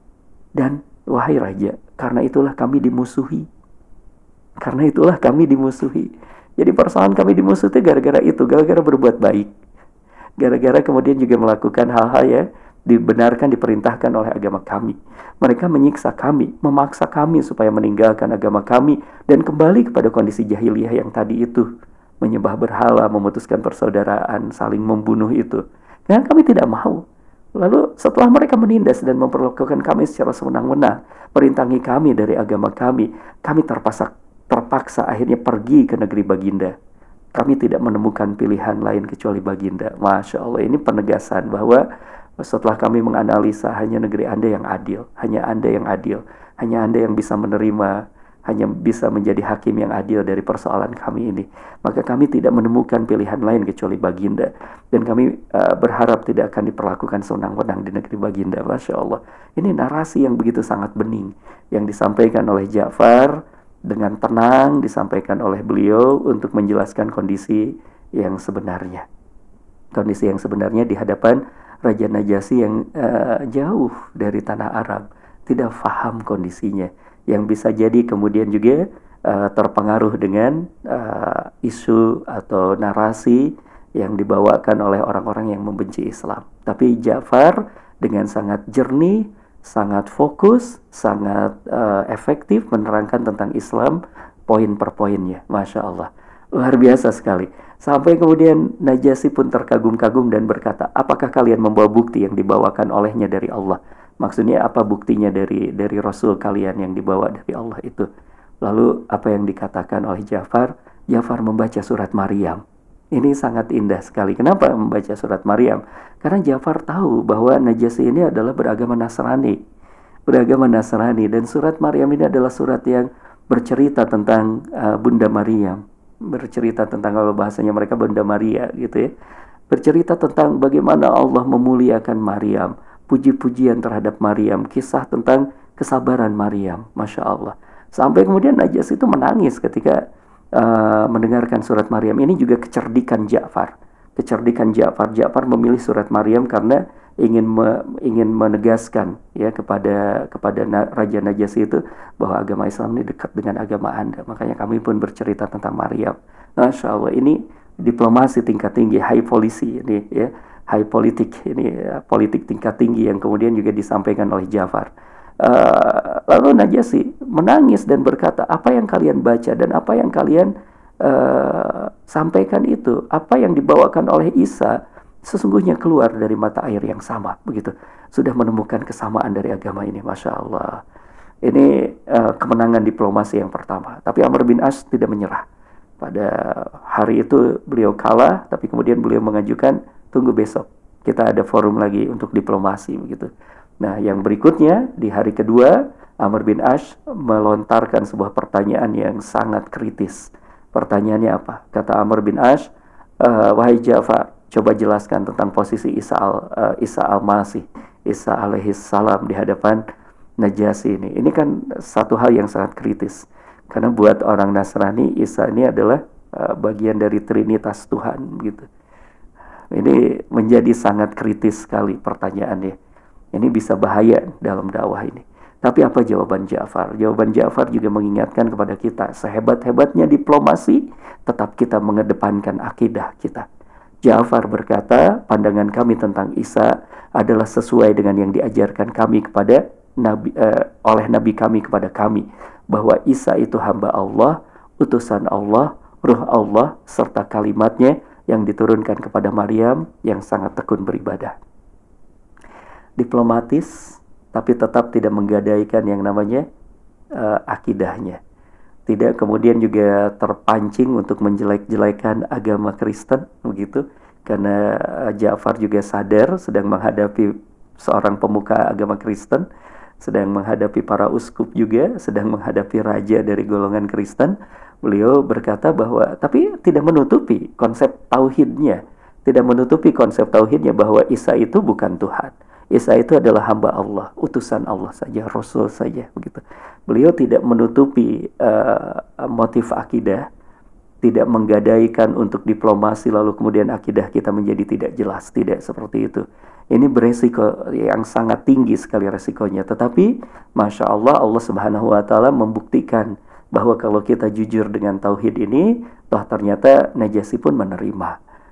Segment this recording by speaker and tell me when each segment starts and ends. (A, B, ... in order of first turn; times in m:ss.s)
0:00.6-0:03.4 A
0:04.6-0:09.5 A
0:10.4-0:21.7 A
0:22.2-0:27.0 A
0:27.6-0:36.7 A
0:37.3-0:41.8 A
0:42.4-0:47.9 A
0:48.5-1:09.0 A
1:10.0-1:48.1 A
1:48.6-1:52.6 A
1:53.1-1:59.6 A
2:00.3-2:09.1 A
2:09.7-2:20.0 A
2:20.6-2:44.9 A
2:45.4-2:50.5 A
2:51.0-3:00.8 A
3:01.4-3:05.4 A
3:06.0-3:13.3 A
3:13.8-3:22.6 A
3:23.2-3:29.8 A
3:30.4-3:38.7 A
3:39.7-3:42.7 A
3:43.3-3:53.4 A
3:54.0-4:11.4 A
4:13.0-4:16.4 A
4:17.2-4:18.2 A
4:18.9-4:29.4 A
4:30.0-4:50.2 A
4:51.0-5:08.2 A